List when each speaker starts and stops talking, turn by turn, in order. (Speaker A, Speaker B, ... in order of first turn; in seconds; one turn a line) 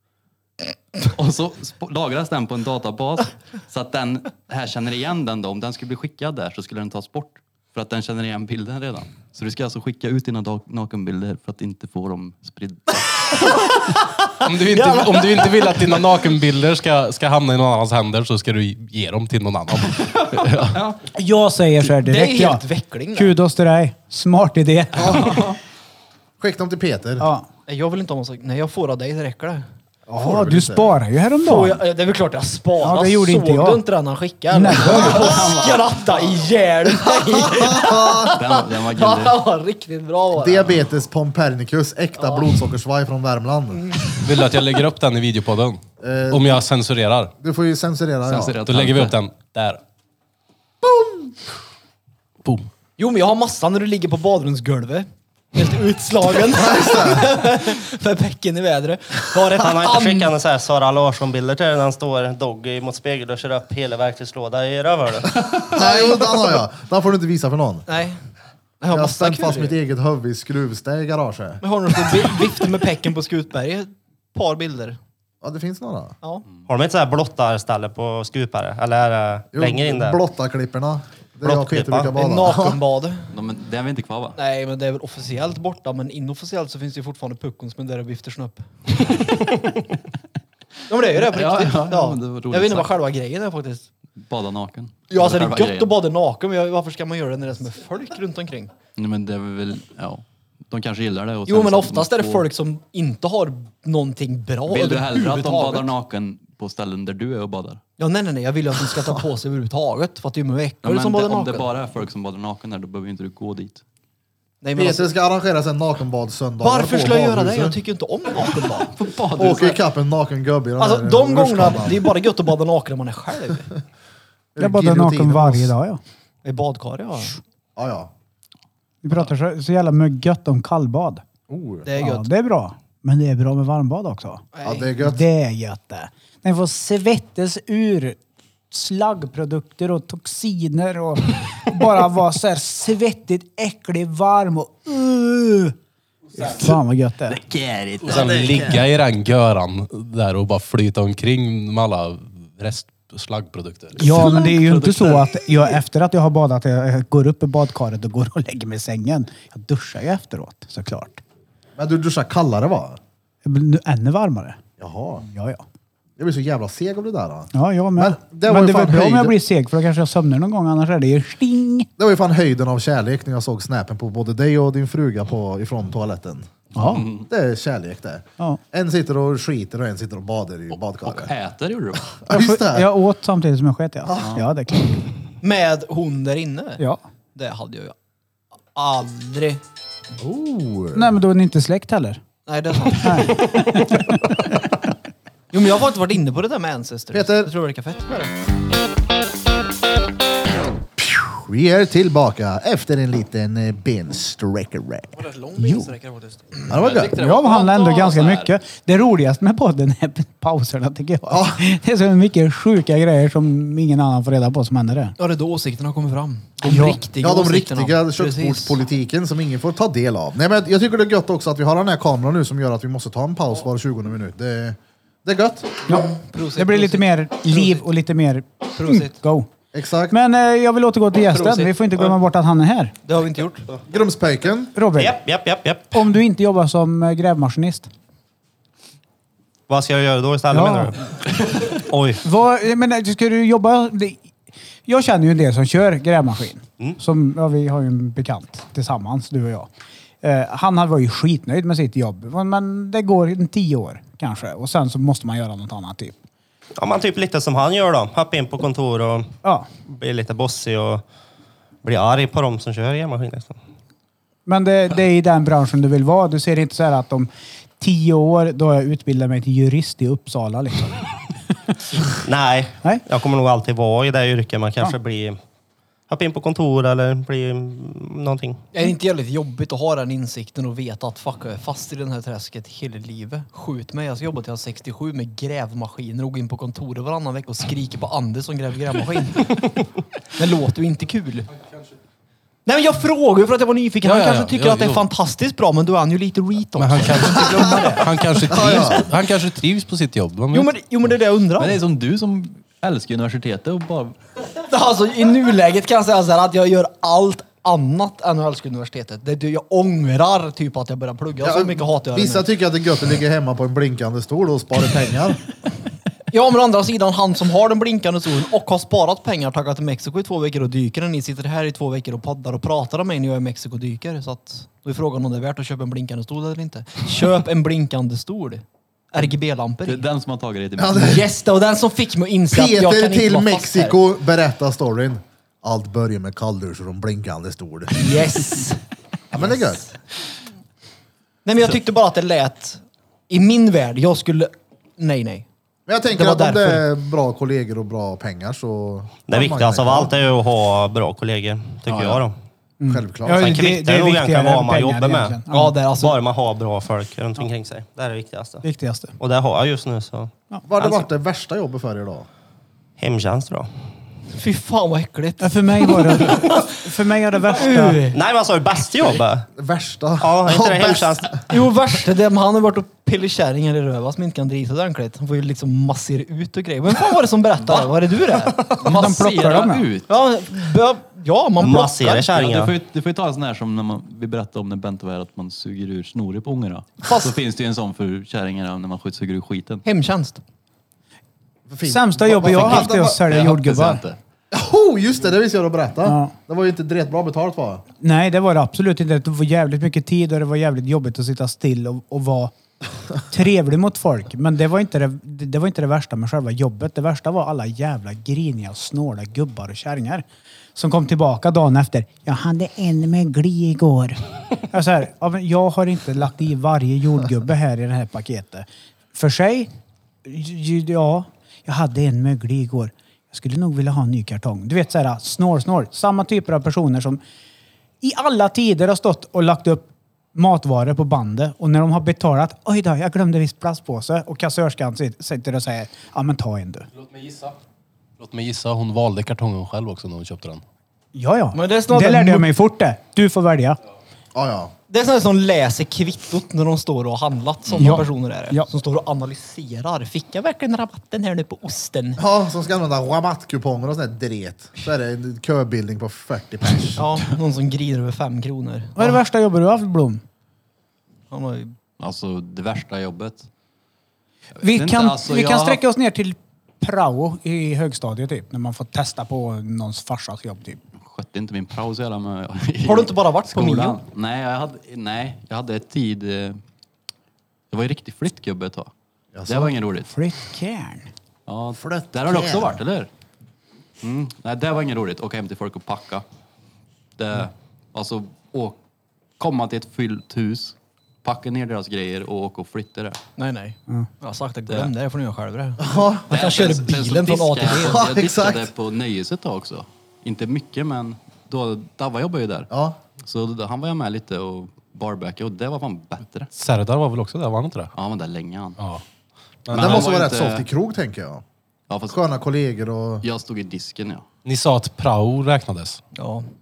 Speaker A: 1.0-13.0
Speaker B: 13.3-13.9
Speaker C: 14.4-20.8
Speaker B: 14.7-15.9
Speaker D: 21.1-22.6
Speaker B: 22.0-23.3
Speaker D: 23.1-25.5
Speaker E: 25.0-25.4
Speaker E: 26.4-27.3
Speaker D: 27.2-27.5
Speaker B: 27.7-29.7
Speaker D: 30.1-31.8
Speaker E: 30.1-31.0
Speaker B: 31.4-40.8
Speaker D: 32.8-33.8
Speaker D: 34.5-35.5
Speaker A: 35.3-35.8
Speaker E: 37.2-38.4
Speaker A: 38.3-39.4
Speaker E: 40.3-44.0
Speaker B: 42.2-42.5
Speaker B: 43.8-44.2
Speaker C: 44.2-47.3
Speaker E: 46.0-46.6
Speaker E: 47.4-48.6
Speaker A: 48.2-49.2
Speaker C: 48.6-49.8
Speaker E: 50.8-51.3
Speaker B: 53.0-60.3
Speaker E: 56.5-57.4
Speaker F: 59.5-65.4
Speaker E: 65.6-67.8
Speaker B: 65.8-66.6
Speaker B: 67.9-68.2
Speaker B: 68.8-69.8
Speaker E: 68.9-71.6
Speaker B: 71.6-75.0
Speaker E: 75.4-76.1
Speaker F: 76.7-80.2
Speaker E: 79.5-82.8
Speaker F: 81.4-82.1
Speaker B: 82.1-83.3
Speaker A: 83.3-84.4
Speaker B: 84.3-89.1
Speaker B: 90.9-93.9
Speaker A: 91.2-93.0
Speaker A: 94.2-95.9
Speaker B: 95.1-98.7
Speaker A: 99.0-102.5
Speaker B: 101.5-105.9
Speaker A: 104.7-107.8
Speaker B: 108.0-111.7
Speaker A: 110.8-113.8
Speaker B: 114.6-115.1
Speaker E: 114.8-117.8
Speaker B: 116.6-118.9
Speaker A: 118.9-119.8
Speaker E: 119.3-122.1
Speaker B: 120.8-123.7
Speaker E: 124.5-125.7
Speaker D: 124.6-126.0
Speaker B: 126.4-127.4
Speaker E: 127.8-128.1
Speaker D: 129.0-131.2
Speaker E: 131.5-131.9
Speaker B: 131.8-132.3
Speaker D: 132.0-134.4
Speaker B: 134.5-134.9
Speaker E: 134.6-135.3
Speaker D: 135.0-138.2
Speaker D: 138.7-145.7
Speaker D: 146.3-147.4
Speaker A: 146.4-146.8
Speaker A: 147.3-148.8
Speaker C: 148.0-154.1
Speaker D: 154.0-161.2
Speaker A: 154.0-155.4
Speaker E: 161.8-163.0
Speaker D: 163.4-164.6
Speaker E: 164.8-165.2
Speaker D: 165.2-165.6
Speaker E: 166.2-169.4
Speaker D: 167.5-171.9
Speaker E: 172.0-176.5
Speaker D: 176.7-177.1
Speaker A: 176.8-177.3
Speaker E: 177.2-181.3
Speaker A: 180.7-182.2
Speaker E: 182.2-182.9
Speaker D: 182.3-185.0
Speaker E: 184.1-184.4
Speaker B: 185.4-186.8
Speaker B: 187.3-187.9
Speaker B: 188.7-189.6
Speaker E: 190.2-191.1
Speaker D: 190.9-192.2
Speaker B: 192.4-193.4
Speaker D: 193.0-194.2
Speaker B: 195.5-198.3
Speaker E: 197.1-197.5
Speaker E: 201.0-205.1
Speaker B: 205.2-206.7
Speaker D: 205.6-205.9
Speaker A: 206.7-208.5
Speaker E: 206.7-207.2
Speaker D: 207.1-215.1
Speaker E: 211.3-211.6
Speaker B: 215.2-218.8
Speaker D: 216.6-217.0
Speaker E: 217.2-225.8
Speaker B: 225.9-227.8
Speaker D: 225.9-229.5
Speaker B: 228.8-229.1
Speaker E: 229.7-230.2
Speaker D: 230.1-232.9
Speaker B: 231.3-232.1
Speaker B: 233.1-233.7
Speaker E: 233.9-234.7
Speaker D: 234.7-235.2
Speaker F: 234.9-236.0
Speaker D: 235.9-237.9
Speaker F: 239.7-241.1
Speaker D: 240.5-240.9
Speaker F: 241.7-242.2
Speaker D: 242.2-244.2
Speaker D: 244.9-249.7
Speaker D: 250.2-256.2
Speaker F: 256.8-259.3
Speaker F: 259.9-261.0
Speaker F: 261.8-263.6
Speaker D: 264.5-267.3
Speaker D: 267.8-271.0
Speaker F: 272.2-275.4
Speaker F: 276.1-278.6
Speaker B: 278.7-289.7
Speaker B: 290.3-291.5
Speaker B: 292.6-298.8
Speaker C: 294.0-295.0
Speaker C: 296.8-300.7
Speaker E: 298.5-299.1
Speaker B: 300.5-301.8
Speaker A: 301.6-304.2
Speaker B: 304.7-312.5
Speaker E: 311.4-315.4
Speaker B: 316.3-330.1
Speaker A: 329.8-331.2
Speaker E: 330.8-331.2
Speaker B: 330.9-334.0
Speaker E: 332.5-338.1
Speaker B: 337.9-338.8
Speaker E: 339.3-339.9
Speaker B: 341.4-345.4
Speaker E: 345.9-350.1
Speaker B: 346.1-346.9
Speaker F: 349.3-352.3
Speaker A: 351.9-352.2
Speaker D: 352.8-355.8
Speaker E: 352.9-353.5
Speaker F: 353.3-355.4
Speaker B: 355.5-356.2
Speaker F: 355.9-358.6
Speaker D: 358.6-359.1
Speaker F: 359.2-360.3
Speaker E: 360.7-362.3
Speaker F: 363.0-363.7
Speaker B: 364.3-366.7
Speaker D: 365.4-368.0
Speaker B: 367.5-368.2
Speaker F: 368.1-369.5
Speaker E: 369.6-371.4
Speaker F: 370.2-371.4
Speaker B: 371.5-378.7
Speaker A: 378.8-380.1
Speaker D: 378.9-379.9
Speaker B: 380.1-382.2
Speaker F: 381.6-382.7
Speaker A: 382.2-389.8
Speaker B: 387.0-387.3
Speaker B: 389.8-390.4
Speaker E: 391.7-393.3
Speaker D: 391.8-394.0
Speaker A: 392.4-394.2
Speaker E: 394.5-397.8
Speaker D: 396.0-396.3
Speaker D: 398.0-402.5
Speaker D: 403.3-419.7
Speaker D: 420.2-427.2
Speaker D: 428.0-436.9
Speaker C: 436.9-437.6
Speaker C: 438.2-440.6
Speaker D: 441.1-443.8
Speaker B: 441.5-442.5
Speaker E: 444.3-444.7
Speaker B: 444.9-452.2
Speaker A: 447.7-448.0
Speaker D: 447.8-448.7
Speaker E: 452.2-457.1
Speaker B: 457.0-459.2
Speaker D: 458.9-460.2
Speaker B: 461.3-461.8
Speaker A: 462.0-463.5
Speaker A: 464.6-465.8
Speaker D: 464.6-470.8
Speaker A: 471.0-476.6
Speaker B: 472.8-474.0
Speaker A: 477.7-478.9
Speaker E: 479.3-479.7
Speaker A: 479.5-480.1
Speaker D: 480.1-481.1
Speaker A: 481.5-483.1
Speaker E: 481.7-482.8
Speaker A: 484.0-486.2
Speaker A: 487.2-488.8
Speaker A: 489.4-493.2
Speaker B: 493.4-498.0
Speaker A: 494.7-494.9
Speaker E: 495.8-496.2
Speaker A: 496.3-502.7
Speaker E: 497.8-498.7
Speaker E: 502.7-503.0
Speaker A: 503.2-506.5
Speaker C: 506.5-507.9
Speaker A: 507.9-508.8
Speaker C: 509.6-510.1
Speaker A: 509.7-510.6
Speaker E: 509.7-511.4
Speaker A: 511.9-512.2
Speaker E: 512.1-513.2
Speaker A: 513.2-514.2
Speaker C: 514.4-516.0
Speaker B: 516.1-516.5